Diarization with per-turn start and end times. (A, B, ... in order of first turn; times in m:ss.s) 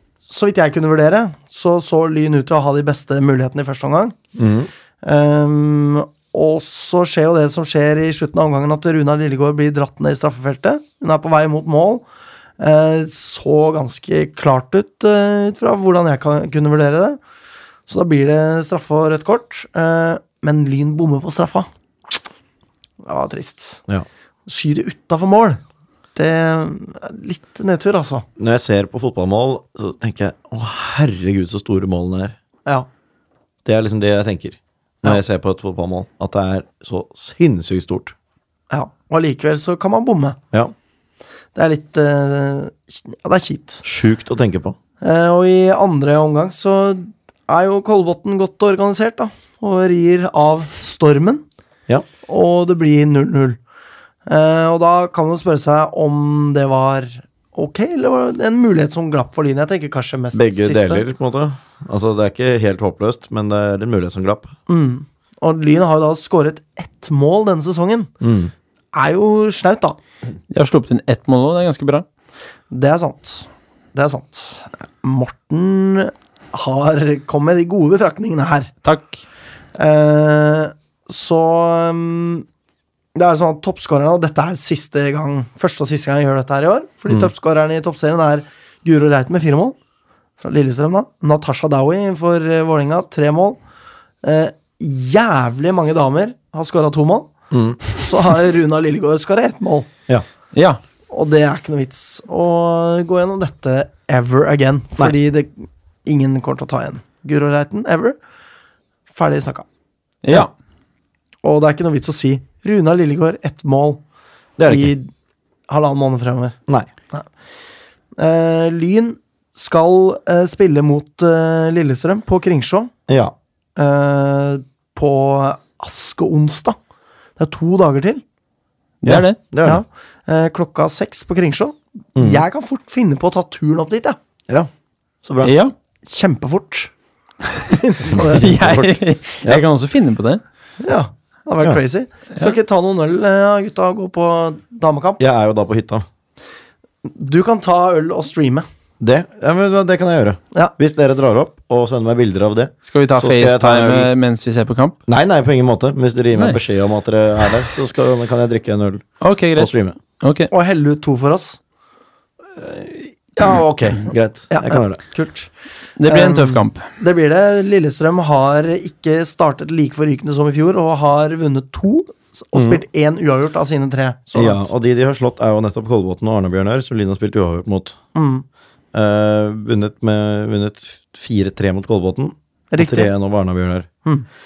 0:00.3-0:04.2 A
0:04.3-0:04.7 B
0:05.0-0:12.0 A
0:12.6-0:17.2 A
0:17.9-0:21.7 A
0:23.0-0:23.8 A
0:24.5-0:25.6 A
0:26.1-0:28.2 A
0:28.4-0:32.4 B
0:33.6-0:38.1 B
0:38.7-0:40.4 A
0:41.5-0:43.8 A
0:43.8-0:44.8 B
0:45.0-0:51.4 A
0:52.2-0:53.6 A
0:54.3-1:01.0 A
1:00.3-1:04.5 B
1:04.7-1:08.1 A
1:08.2-1:08.5 B
1:08.9-1:10.0 A
1:10.5-1:12.0 C
1:12.7-1:18.7 A
1:18.8-1:19.2 C
1:19.8-1:22.4 A
1:23.1-1:29.8 A
1:30.4-1:33.6 A
1:34.2-1:37.3 A
1:37.5-1:37.8 B
1:37.9-1:39.9 A
1:40.5-1:40.8 C
1:41.1-1:48.2 A
1:49.1-1:49.6 A
1:50.2-1:50.5 C
1:51.4-1:54.0 A
1:54.6-1:54.9 B
1:54.7-1:55.1 A
1:55.7-1:56.6 A
1:58.2-2:02.9 A
2:03.1-2:03.3 B
2:03.8-2:06.8 A
2:07.4-2:08.2 A
2:09.0-2:09.4 C
2:09.0-2:09.8 B
2:09.6-2:14.2 A
2:12.2-2:12.4 B
2:15.2-2:15.5 B
2:15.4-2:15.7 C
2:16.0-2:16.9 A
2:17.7-2:18.4 A
2:18.2-2:19.6 B
2:18.2-2:20.4 C
2:20.8-2:25.2 A
2:25.2-2:26.0 B
2:27.0-2:28.6 A
2:29.0-2:34.1 B
2:32.8-2:35.0 C
2:35.1-2:40.0 B
2:39.2-2:40.5 C
2:40.5-2:41.6 A
2:42.6-2:45.0 B
2:44.5-2:45.5 A
2:46.0-2:46.8 C
2:46.1-2:54.7 A
2:52.5-2:52.8 B
2:54.3-2:58.0 B
2:58.1-2:58.4 A
2:58.9-3:03.9 B
3:02.7-3:03.1 A